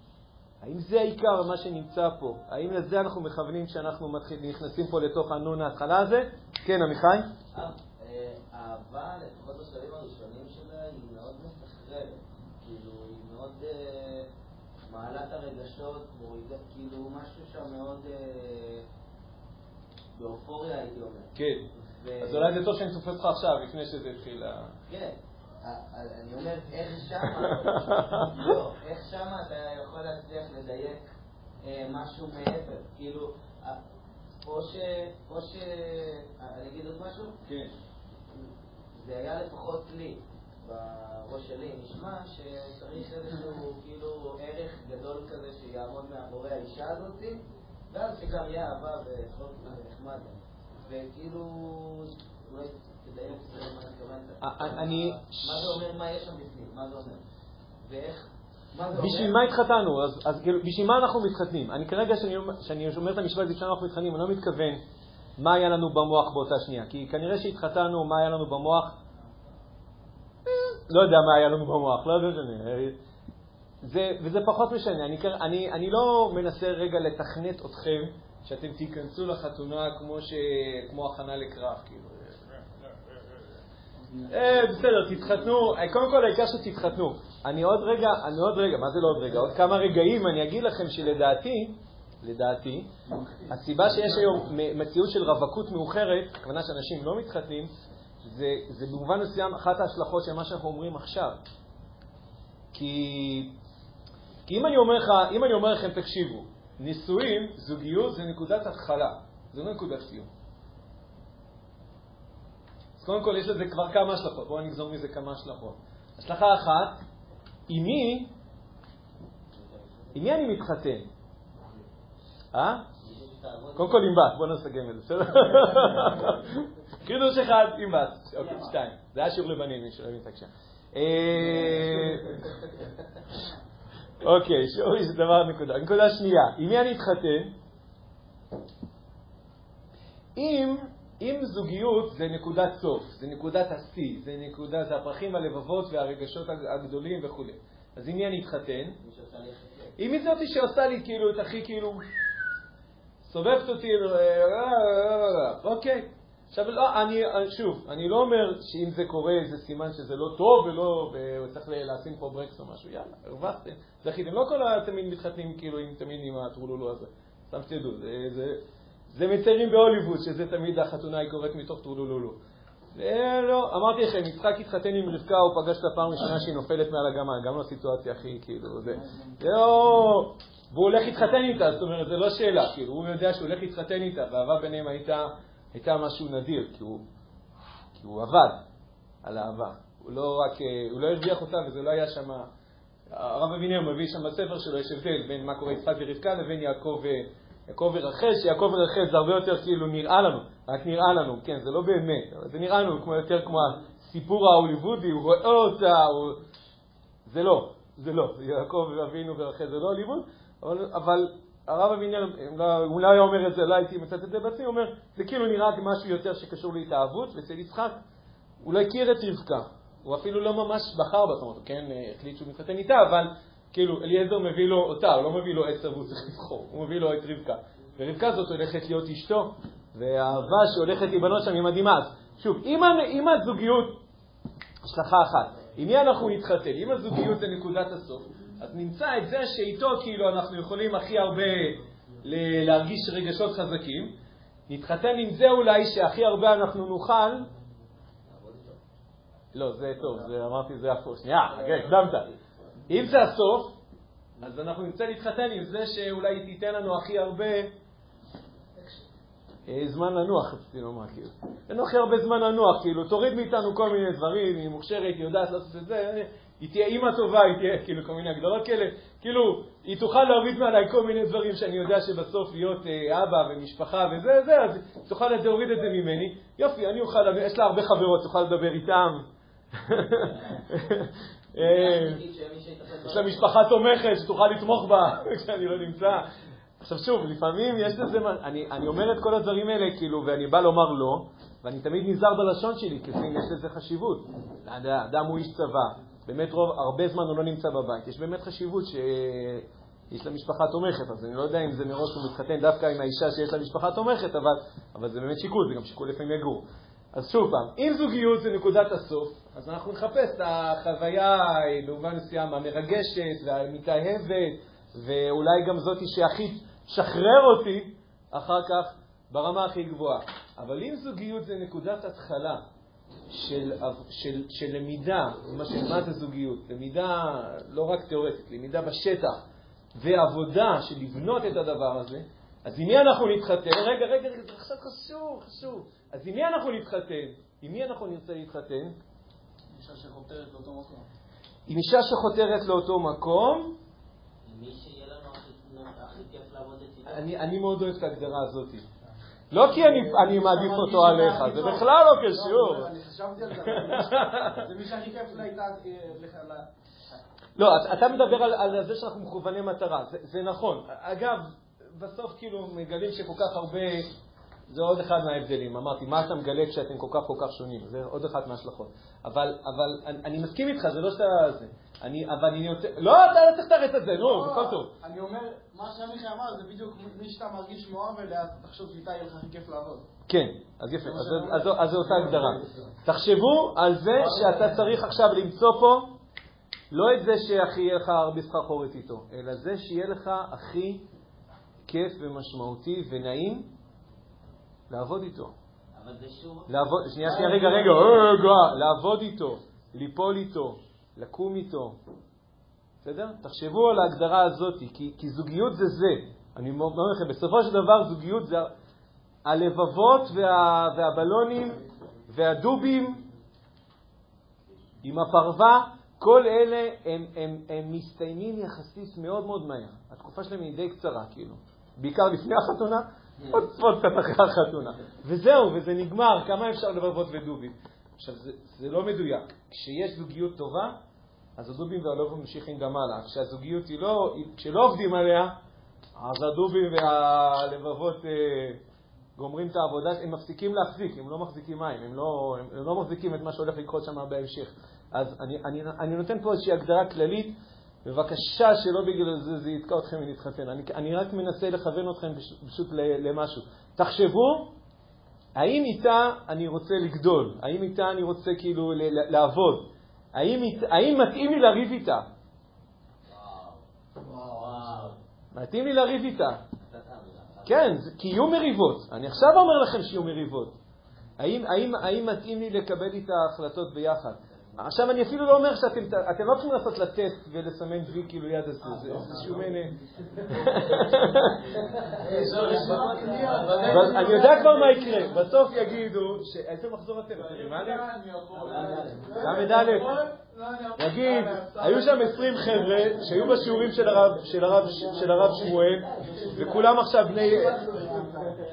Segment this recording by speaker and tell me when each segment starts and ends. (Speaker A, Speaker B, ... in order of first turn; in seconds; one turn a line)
Speaker A: 0.6-7.3
Speaker B: 7.5-14.3
Speaker B: 14.9-18.9
Speaker B: 20.1-22.6
Speaker A: 21.4-21.7
Speaker A: 22.2-24.7
Speaker B: 24.9-31.0
Speaker A: 27.6-28.5
Speaker B: 31.6-33.8
Speaker B: 34.4-37.4
Speaker A: 37.4-37.7
Speaker B: 38.9-57.2
Speaker A: 54.4-55.7
Speaker B: 57.8-59.4
Speaker A: 58.9-64.8
Speaker A: 65.4-69.0
Speaker A: 70.9-73.0
Speaker A: 73.8-82.4
Speaker A: 84.3-92.9
Speaker A: 93.5-97.7
Speaker A: 98.2-101.4
Speaker A: 102.7-103.6
Speaker A: 104.5-110.3
Speaker A: 113.0-117.0
Speaker A: 117.7-118.3
Speaker B: 119.5-120.2
Speaker A: 120.1-121.1
Speaker A: 122.5-122.9
Speaker B: 123.0-124.0
Speaker A: 123.8-132.7
Speaker A: 134.2-137.5
Speaker A: 140.4-149.0
Speaker B: 149.0-150.0
Speaker A: 150.0-152.0
Speaker A: 153.2-172.4
Speaker A: 172.9-187.1
Speaker A: 188.0-188.6
Speaker A: 189.2-192.5
Speaker A: 193.1-206.4
Speaker A: 207.3-218.0
Speaker A: 218.6-234.0
Speaker A: 234.8-244.2
Speaker A: 244.7-247.5
Speaker B: 248.3-248.8
Speaker A: 249.5-252.3
Speaker B: 251.5-252.4
Speaker A: 252.9-253.8
Speaker A: 254.4-257.7
Speaker A: 259.7-282.2
Speaker B: 280.2-280.6
Speaker B: 281.6-283.5
Speaker A: 283.1-286.3
Speaker A: 286.8-322.6
Speaker A: 323.3-329.4
Speaker A: 330.0-338.9
Speaker C: 339.7-341.1
Speaker A: 341.7-343.8
Speaker B: 344.4-347.3
Speaker A: 347.1-348.9
Speaker A: 349.5-352.9
Speaker C: 349.9-356.7
Speaker A: 353.5-354.7
Speaker A: 357.6-364.1
Speaker A: 364.7-374.9
Speaker C: 374.3-380.0
Speaker A: 380.3-386.2
Speaker C: 381.2-382.6
Speaker A: 386.9-391.1
Speaker A: 391.9-393.7
Speaker A: 394.9-395.5
Speaker B: 395.9-398.3
Speaker A: 396.7-402.0
Speaker A: 403.0-408.7
Speaker A: 409.4-413.2
Speaker A: 415.0-431.0
Speaker A: 431.6-435.6
Speaker A: 436.2-438.8
Speaker A: 439.4-454.7
Speaker A: 455.6-462.3
Speaker B: 463.3-465.2
Speaker A: 465.5-466.6
Speaker B: 466.9-467.8
Speaker A: 467.6-470.8
Speaker A: 471.4-481.9
Speaker B: 481.2-484.1
Speaker C: 482.1-485.3
Speaker A: 483.9-488.1
Speaker C: 487.7-495.5
Speaker B: 488.5-489.7
Speaker A: 489.3-490.2
Speaker A: 491.0-497.9
Speaker B: 495.8-496.7
Speaker C: 497.3-498.6